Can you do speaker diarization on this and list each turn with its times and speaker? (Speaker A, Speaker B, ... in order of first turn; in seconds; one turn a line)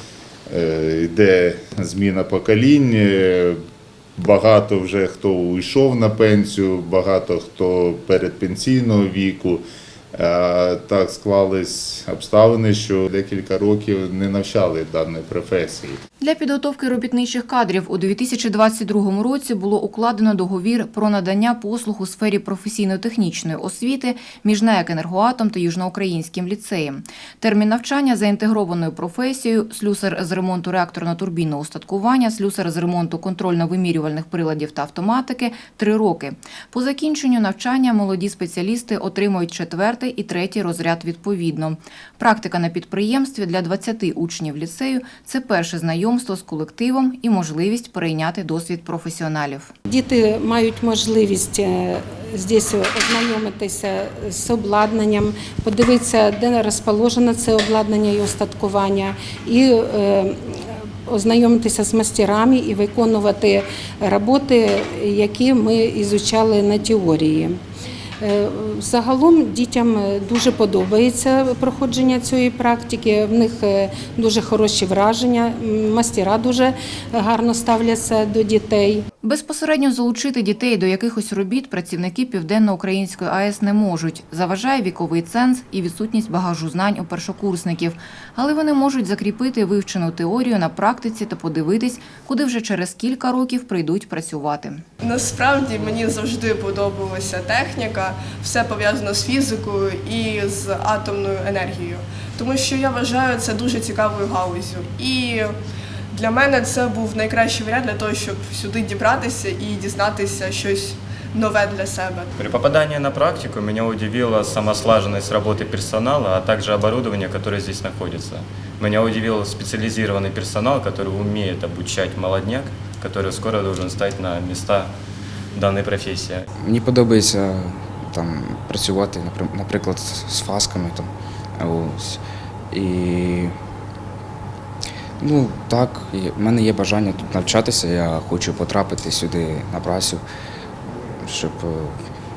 Speaker A: 0.5-3.6
Speaker A: 4.2-9.6
Speaker A: 10.1-16.0
Speaker B: 16.2-49.7
Speaker C: 49.9-67.6
Speaker C: 68.2-79.1
Speaker B: 79.2-94.8
Speaker D: 95.0-105.5
Speaker D: 106.1-112.3
Speaker E: 112.4-124.9
Speaker E: 125.5-126.5
Speaker F: 126.6-133.6
Speaker F: 135.2-140.2
Speaker F: 141.2-142.0